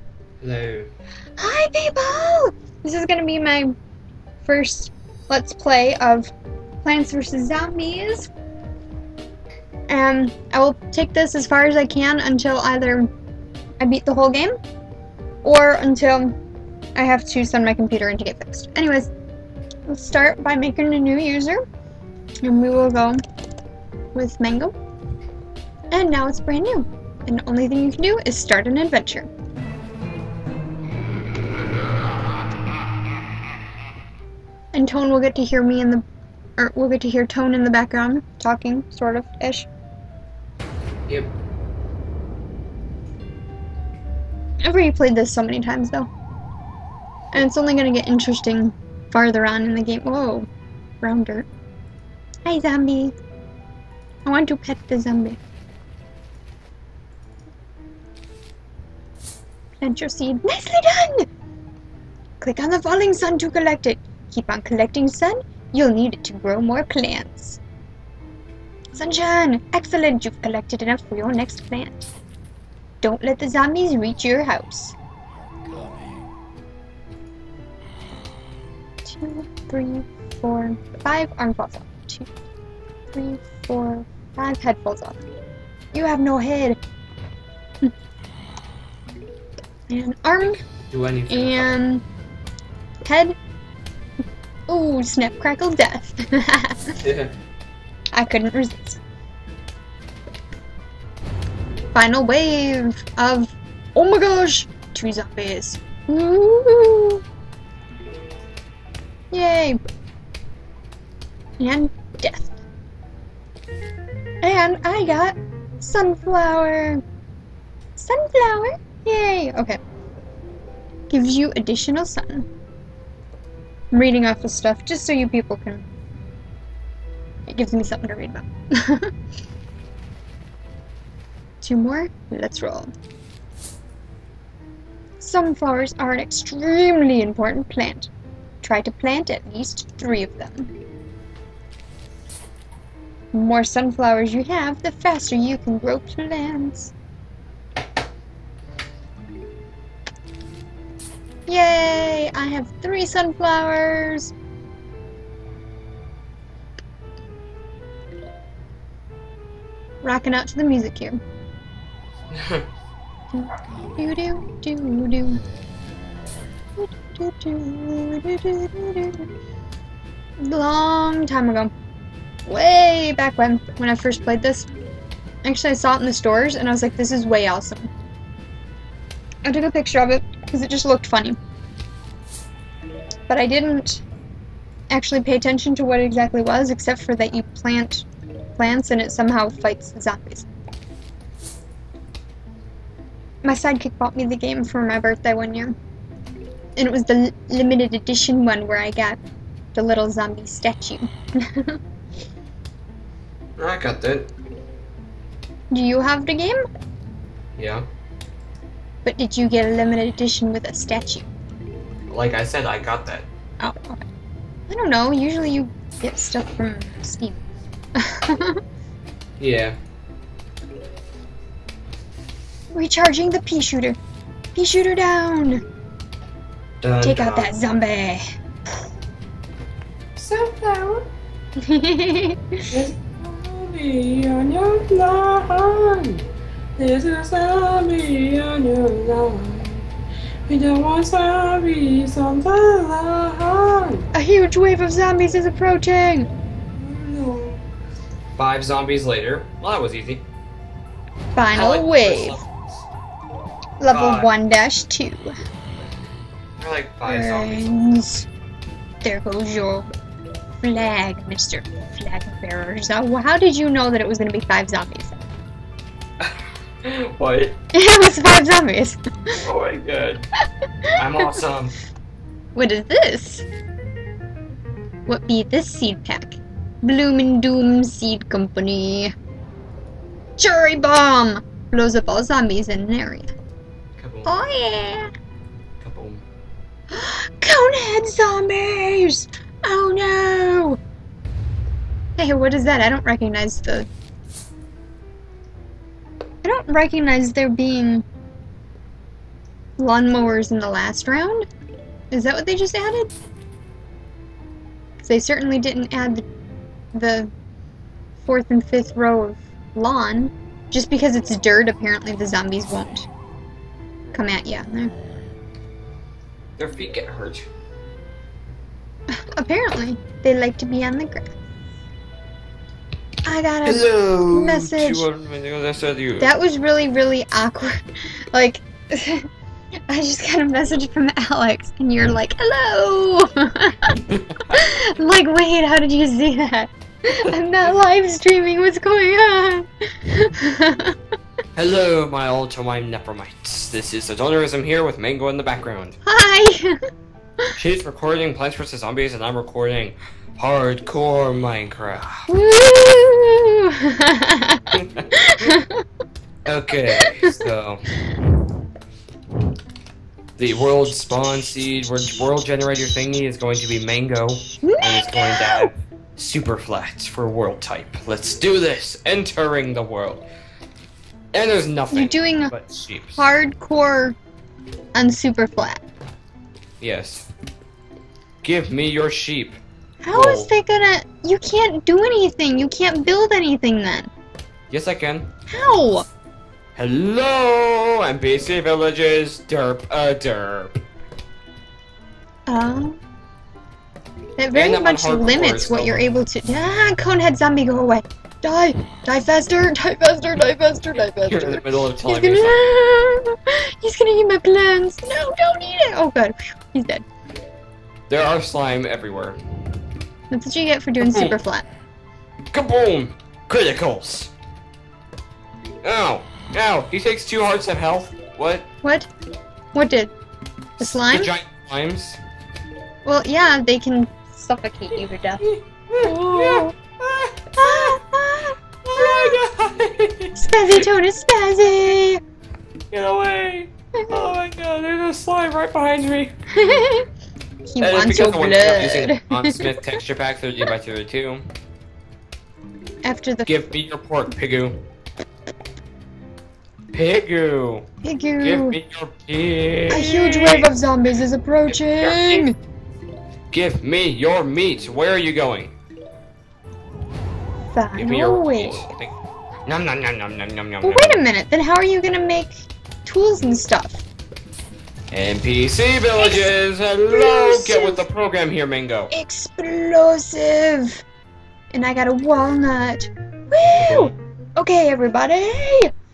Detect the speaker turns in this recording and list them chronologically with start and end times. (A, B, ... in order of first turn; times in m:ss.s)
0:00.4-0:00.9 A
0:01.4-0:03.7 B
0:04.4-0:06.3 B
0:06.8-0:08.3 B
0:09.9-0:13.1 B
0:13.8-0:14.6 B
0:15.4-0:16.3 B
0:16.9-0:19.1 B
0:19.9-0:21.6 B
0:22.4-0:23.2 B
0:24.1-0:24.7 B
0:25.9-0:29.3 B
0:34.7-0:36.0 B
0:36.6-0:39.7 B
0:44.6-0:46.1 B
0:47.3-0:50.5 B
0:51.0-0:51.5 B
0:52.4-0:53.1 B
0:54.2-0:55.4 B
0:59.8-1:01.3 B
1:02.4-1:07.6 B
1:08.9-1:12.0 B
1:13.0-1:14.9 B
1:19.0-1:22.3 B
1:23.1-1:25.2 B
1:25.9-1:26.8 B
1:29.9-1:30.6 B
1:30.4-1:31.7 A
1:31.3-1:32.0 B
1:33.0-1:33.3 B
1:34.7-1:37.0 B
1:37.0-1:37.3 A
1:38.1-1:39.0 B
1:41.9-1:47.2 B
1:49.3-1:49.8 B
1:51.6-1:52.5 B
1:54.4-1:57.0 B
1:58.0-1:59.8 B
2:01.1-2:02.5 B
2:03.9-2:05.9 B
2:07.5-2:09.1 B
2:11.6-2:12.9 B
2:15.2-2:18.1 B
2:18.6-2:20.7 B
2:23.3-2:26.9 B
2:31.5-2:34.3 B
2:40.0-2:41.2 B
2:42.3-2:42.6 A
2:43.3-2:45.4 B
2:46.8-2:49.3 B
2:50.4-2:51.7 B
2:52.4-2:54.7 B
2:55.4-2:57.9 B
2:59.4-3:01.4 B
3:03.3-3:04.0 B
3:04.9-3:08.1 B
3:08.6-3:10.5 B
3:13.4-3:15.7 B
3:16.8-3:19.2 B
3:19.7-3:21.8 B
3:23.6-3:24.3 A
3:25.7-3:26.6 B
3:27.6-3:27.9 A
3:29.0-3:31.3 B
3:32.1-3:33.3 A
3:33.6-3:34.0 B
3:34.7-3:37.4 B
3:38.0-3:38.6 B
3:39.4-3:39.8 A
3:42.7-3:44.0 B
3:44.5-3:45.6 B
3:46.8-3:47.5 A
3:47.0-3:48.2 B
3:50.2-3:51.1 A
3:51.6-3:52.7 B
3:52.7-3:56.2 A
3:56.8-3:59.8 A
4:00.5-4:04.1 A
4:04.1-4:06.3 B
4:06.8-4:07.6 A
4:08.4-4:10.2 A
4:11.3-4:12.4 B
4:11.5-4:12.6 A
4:13.8-4:15.4 B
4:13.9-4:14.3 A
4:16.6-4:17.7 A
4:17.0-4:18.2 B
4:19.0-4:19.9 B
4:20.6-4:25.2 B
4:26.2-4:27.6 A
4:27.7-4:29.3 B
4:29.4-4:30.3 A
4:30.9-4:31.3 B
4:30.9-4:31.8 A
4:32.5-4:33.4 B
4:35.0-4:39.1 B
4:40.4-4:43.3 B
4:44.0-4:44.4 A
4:44.2-4:45.1 B
4:45.8-4:46.2 A
4:46.9-4:50.8 B
4:52.2-4:53.9 B
4:56.4-4:58.0 B
4:59.8-5:01.4 B
5:02.1-5:03.1 B
5:05.0-5:06.2 B
5:06.9-5:07.3 B
5:08.2-5:13.1 B
5:14.1-5:14.9 B
5:16.6-5:17.4 A
5:19.1-5:21.3 B
5:23.2-5:25.1 B
5:23.6-5:26.3 A
5:26.2-5:29.3 B
5:29.9-5:34.0 B
5:33.9-5:34.6 A
5:34.5-5:41.0 B
5:37.2-5:37.7 A
5:41.5-5:46.0 A
5:46.0-5:46.8 B
5:47.6-5:52.3 A
5:52.3-5:55.8 B
5:54.7-5:55.1 A
5:56.4-5:57.9 A
5:56.8-5:57.5 B
6:00.4-6:10.2 A
6:04.6-6:05.7 B
6:11.3-6:13.2 A
6:11.9-6:12.5 B
6:13.2-6:14.2 B
6:14.9-6:15.8 B
6:16.8-6:17.3 A
6:18.4-6:19.6 A
6:20.0-6:24.1 B
6:20.1-6:20.5 A
6:24.7-6:25.3 A
6:25.5-6:26.1 B
6:26.7-6:30.7 A
6:32.5-6:33.0 B
6:34.4-6:47.0 B
6:34.5-6:36.1 A
6:41.1-6:42.6 A
6:48.1-6:49.4 A
6:50.3-6:51.6 B
6:51.0-6:51.3 A
6:52.5-6:54.3 A
6:55.8-6:58.7 A
6:58.8-6:59.1 B
6:59.7-7:00.1 B
7:00.8-7:01.3 B
7:00.8-7:02.2 A
7:03.0-7:05.4 B
7:05.4-7:08.0 A
7:06.0-7:06.8 B
7:07.6-7:09.4 B
7:08.8-7:10.9 A
7:10.4-7:12.2 B
7:12.9-7:16.3 A
7:16.5-7:17.0 B
7:17.7-7:19.9 B
7:17.8-7:21.4 A
7:23.0-7:23.5 B
7:23.4-7:24.8 A
7:26.9-7:27.8 A
7:28.0-7:28.8 B
7:28.4-7:30.7 A
7:29.9-7:32.6 B
7:31.7-7:32.4 A
7:33.5-7:35.7 A
7:37.7-7:38.9 B
7:37.9-7:39.1 A
7:39.6-7:41.2 A
7:40.8-7:44.0 B
7:45.1-7:49.1 A
7:46.2-7:46.5 B
7:47.1-7:48.0 B
7:49.1-7:51.0 B
7:51.7-7:55.9 B
7:53.7-7:54.1 A